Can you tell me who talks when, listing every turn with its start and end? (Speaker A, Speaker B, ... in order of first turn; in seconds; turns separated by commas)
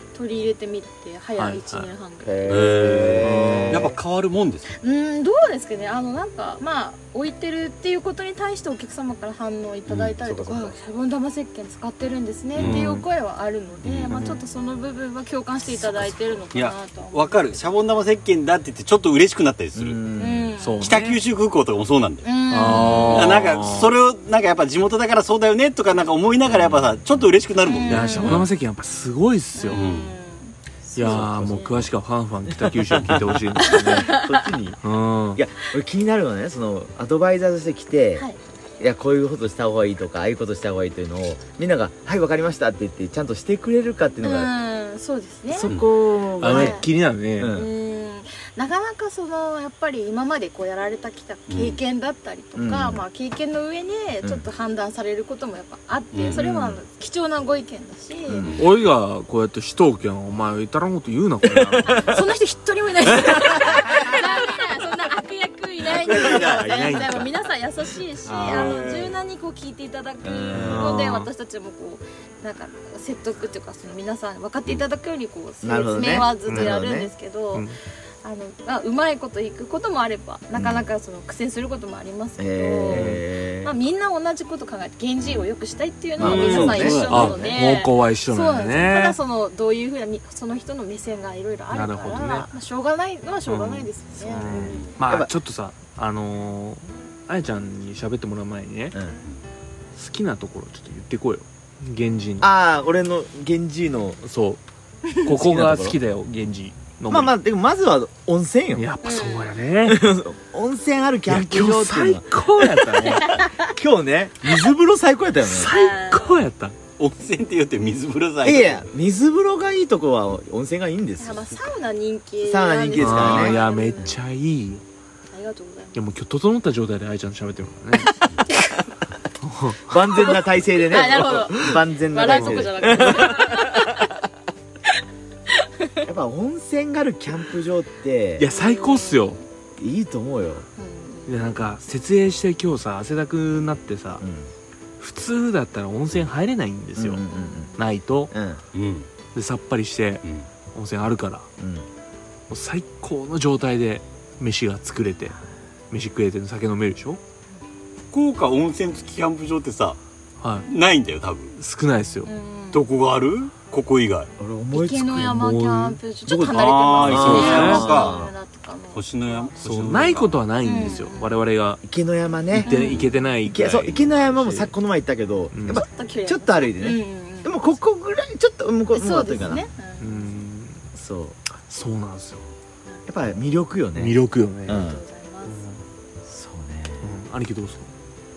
Speaker A: 0.1-3.1, Speaker B: 1.4-1.9, Speaker C: 2.2-4.0, Speaker D: 2.5-4.8, Speaker B: 3.2-3.9, Speaker A: 4.8-17.6, Speaker D: 9.9-10.1, Speaker C: 10.2-10.7, Speaker D: 12.6-12.9, Speaker B: 12.6-13.0, Speaker D: 13.8-14.2, Speaker B: 14.1-14.4, Speaker D: 16.0-20.0, Speaker C: 19.8-20.5, Speaker A: 20.2-20.9, Speaker B: 20.6-21.2, Speaker D: 20.8-28.5, Speaker A: 22.2-23.4, Speaker B: 22.5-23.9, Speaker A: 27.6-28.4, Speaker B: 27.9-29.8, Speaker A: 29.5-31.8, Speaker D: 29.7-30.1, Speaker B: 30.9-34.1, Speaker C: 31.0-31.9, Speaker C: 32.5-34.8, Speaker D: 32.9-33.3, Speaker A: 33.6-34.5, Speaker B: 34.8-35.4, Speaker C: 35.3-38.2, Speaker C: 38.8-44.5, Speaker A: 44.2-45.8, Speaker C: 45.5-46.8, Speaker B: 46.4-47.5, Speaker A: 46.4-46.9, Speaker C: 47.4-47.7, Speaker A: 47.5-58.5, Speaker D: 51.5-51.8, Speaker C: 52.5-53.0, Speaker D: 56.1-56.4, Speaker C: 56.3-56.8, Speaker C: 58.3-58.6, Speaker D: 58.4-58.8, Speaker B: 58.6-62.1, Speaker C: 61.4-62.2, Speaker A: 61.9-77.7, Speaker C: 63.4-64.2, Speaker D: 65.9-67.2, Speaker B: 66.2-67.3, Speaker C: 68.2-68.8, Speaker D: 68.3-69.1, Speaker C: 70.2-70.9, Speaker B: 70.5-71.3, Speaker C: 75.6-77.1, Speaker B: 76.5-76.7, Speaker A: 78.2-94.9, Speaker C: 80.5-80.8, Speaker C: 82.4-83.7, Speaker B: 82.9-83.2, Speaker C: 86.2-87.6, Speaker D: 86.2-87.3, Speaker B: 87.1-89.2, Speaker B: 91.7-92.5, Speaker B: 93.5-99.0, Speaker D: 94.5-94.9, Speaker C: 95.0-95.3, Speaker C: 98.9-99.2, Speaker B: 99.9-102.5, Speaker C: 102.4-104.2, Speaker B: 104.2-104.6, Speaker B: 105.2-107.3, Speaker C: 105.2-106.0, Speaker C: 107.1-108.9, Speaker B: 108.7-110.1, Speaker A: 109.0-109.6, Speaker C: 109.8-115.7, Speaker B: 111.3-113.4, Speaker A: 113.2-113.6, Speaker B: 115.4-116.8, Speaker A: 115.5-116.4, Speaker D: 117.0-118.8, Speaker C: 118.4-121.4, Speaker A: 121.2-124.1, Speaker C: 122.4-123.6, Speaker B: 123.0-124.8, Speaker A: 125.3-126.0, Speaker B: 125.9-128.2, Speaker A: 128.5-128.8, Speaker B: 129.4-129.9, Speaker C: 129.9-133.9, Speaker A: 130.2-134.1, Speaker B: 132.3-133.2, Speaker A: 135.5-136.0, Speaker C: 136.0-138.5, Speaker B: 138.4-139.4, Speaker A: 138.5-139.4, Speaker C: 139.8-140.7, Speaker A: 140.8-141.6, Speaker B: 141.2-144.2, Speaker C: 144.2-144.5, Speaker B: 145.0-147.2, Speaker C: 146.9-147.7, Speaker A: 147.3-147.8, Speaker B: 147.8-148.3, Speaker C: 148.3-148.6, Speaker D: 148.7-149.1, Speaker B: 149.3-151.5, Speaker C: 151.6-151.8, Speaker B: 152.5-155.3, Speaker B: 155.9-157.2, Speaker D: 158.1-160.0, Speaker B: 160.4-160.7, Speaker D: 160.7-161.5, Speaker B: 161.6-162.3, Speaker A: 162.2-162.8, Speaker D: 162.7-164.3, Speaker C: 164.4-165.2, Speaker A: 164.7-169.5, Speaker B: 165.0-166.0, Speaker C: 166.3-168.3, Speaker D: 166.4-168.2, Speaker B: 167.0-167.8, Speaker D: 168.9-170.4, Speaker B: 169.6-171.8, Speaker A: 170.6-171.4, Speaker C: 171.8-172.7, Speaker B: 172.5-174.7, Speaker A: 172.6-173.1, Speaker D: 172.7-173.1, Speaker C: 173.4-179.7, Speaker B: 175.5-175.8, Speaker A: 175.7-177.7, Speaker A: 178.9-180.4, Speaker B: 180.0-180.8, Speaker C: 180.9-181.4, Speaker B: 181.7-182.5, Speaker C: 183.1-185.0, Speaker B: 183.9-184.8, Speaker A: 184.7-185.7, Speaker B: 185.5-185.8, Speaker C: 186.3-187.1, Speaker B: 187.0-187.9